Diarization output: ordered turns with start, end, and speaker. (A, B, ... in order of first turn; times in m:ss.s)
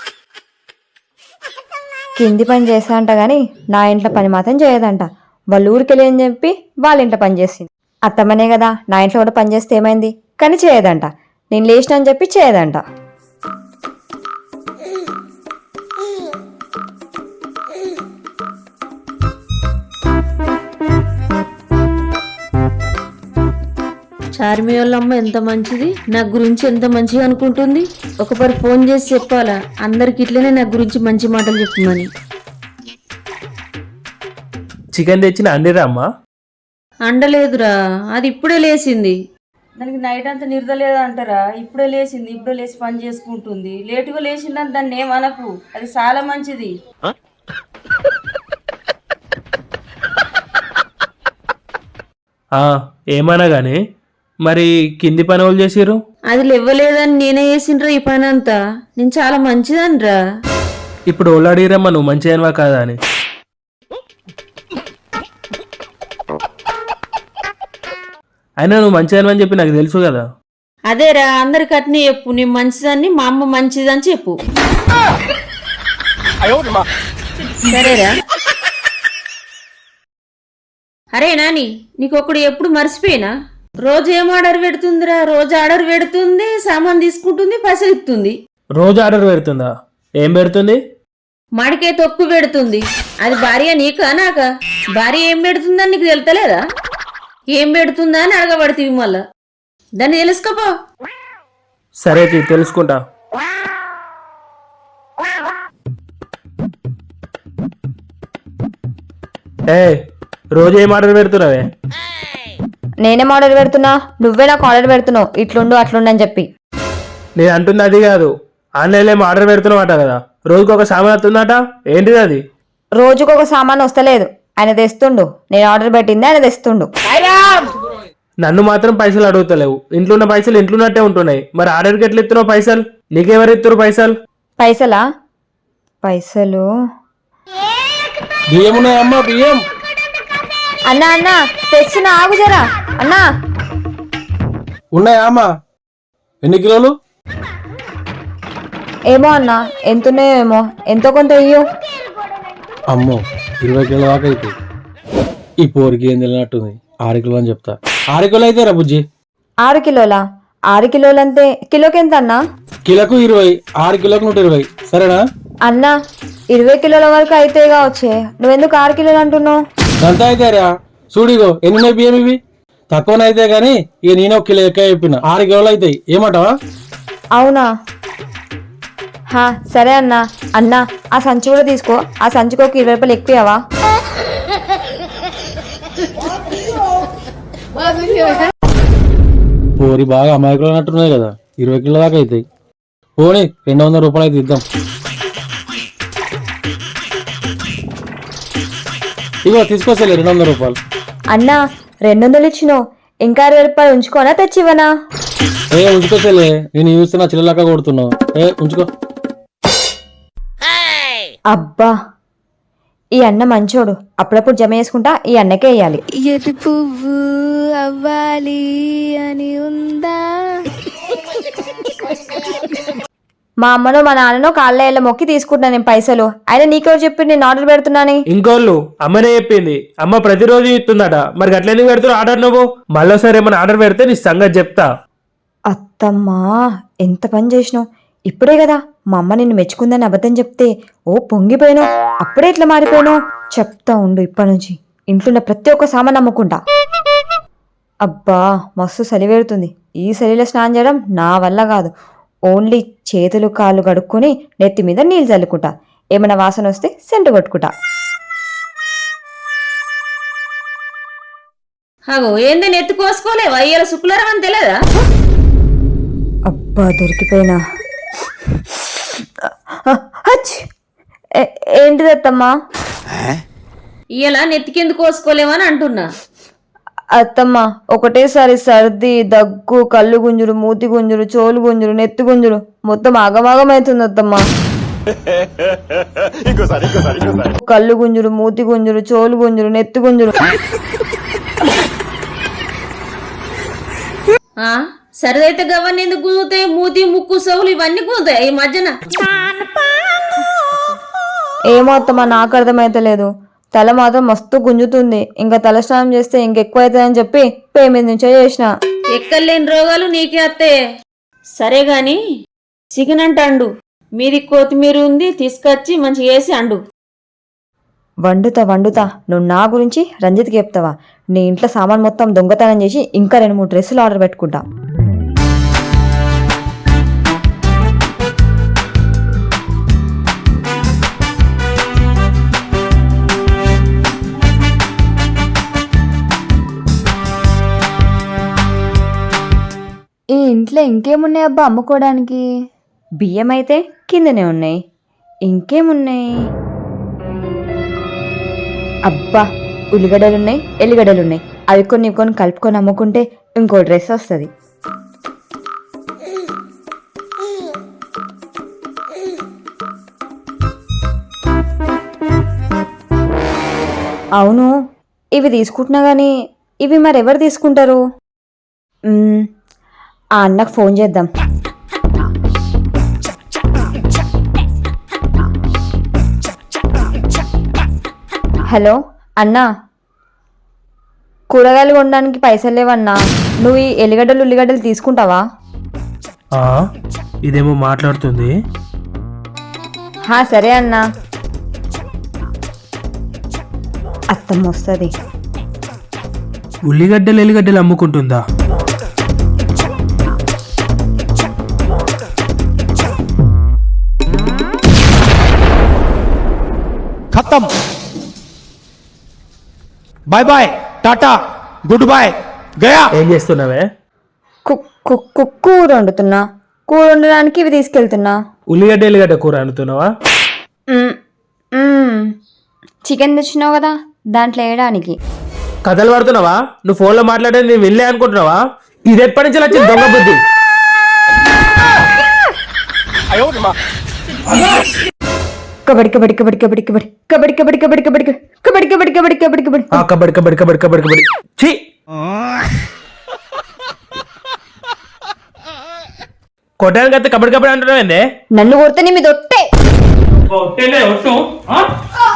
0:02.2-0:12.8 A
0:24.3-0:32.1 B
0:34.9-0:36.1 C
0:37.1-0:39.2 B
0:39.8-0:46.7 B
0:52.6-0:53.8 C
0:54.5-0:56.0 C
0:56.3-1:00.1 B
1:01.1-1:03.0 C
1:08.6-1:10.2 C
1:10.9-1:14.4 B
1:16.4-1:16.8 D
1:17.6-1:18.1 B
1:21.1-1:23.3 B
1:23.8-1:28.4 B
1:28.8-1:29.7 C
1:30.2-1:30.8 C
1:31.6-1:36.6 B
1:37.5-1:39.2 B
1:40.0-1:40.7 B
1:42.0-1:43.0 C
1:50.5-1:51.7 C
1:53.0-1:56.5 A
1:57.4-2:02.4 C
2:03.0-2:06.9 A
2:08.4-2:14.1 C
2:14.6-2:15.0 A
2:16.0-2:16.7 A
2:18.5-2:19.6 E
2:20.9-2:23.2 A
2:24.9-2:25.5 E
2:26.4-2:26.9 E
2:29.1-2:31.6 A
2:32.9-2:34.5 E
2:35.6-2:39.0 E
2:39.6-2:40.2 A
2:40.7-2:42.4 A
2:42.8-2:45.2 E
2:45.6-2:45.9 A
2:46.5-2:49.6 A
2:50.0-2:52.4 E
2:52.9-2:56.5 E
2:57.4-2:57.7 A
2:59.3-3:03.6 A
3:09.8-3:12.4 E
3:13.2-3:14.6 E
3:19.4-3:20.8 E
3:21.3-3:24.9 A
3:25.7-3:28.9 E
3:31.5-3:31.9 A
3:33.2-3:36.0 A
3:36.2-3:37.2 F
3:37.9-3:38.6 F
3:39.3-3:40.1 F
3:43.6-3:48.2 A
3:48.3-3:54.9 C
3:55.7-3:56.5 A
3:57.0-4:06.6 A
4:08.0-4:11.9 A
4:12.5-4:17.7 A
4:22.1-4:24.8 B
4:26.5-4:27.6 A
4:28.6-4:29.1 A
4:29.9-4:30.6 A
4:31.4-4:32.5 A
4:34.1-4:36.1 B
4:37.2-4:44.4 A
4:47.6-4:50.4 A
4:54.6-4:58.9 B
5:01.7-5:08.7 A
5:09.1-5:10.7 B
5:11.6-5:12.2 B
5:12.9-5:16.8 B
5:18.2-5:24.6 A
5:40.4-5:42.4 A
5:43.2-5:44.8 A
5:45.5-5:46.3 A
5:49.1-5:49.4 A
5:49.9-5:54.5 A
6:04.4-6:04.7 A
6:05.4-6:06.3 A
6:06.8-6:08.0 A
6:09.1-6:09.5 A
6:10.4-6:11.3 A
6:18.7-6:19.6 A
6:21.5-6:25.4 A
6:27.4-6:28.5 C
6:30.3-6:31.0 A
6:34.3-6:35.1 A
6:36.9-6:38.4 C
6:47.3-6:47.7 D
6:50.3-6:53.1 D
6:53.1-6:53.8 C
6:54.6-6:58.4 A
6:58.7-7:00.1 C
7:01.8-7:02.3 A
7:03.0-7:05.2 A
7:05.8-7:10.4 C
7:13.4-7:13.7 D
7:15.9-7:20.0 A
7:19.9-7:21.8 C
7:26.8-7:28.2 C
7:28.6-7:29.6 A
7:30.3-7:31.9 C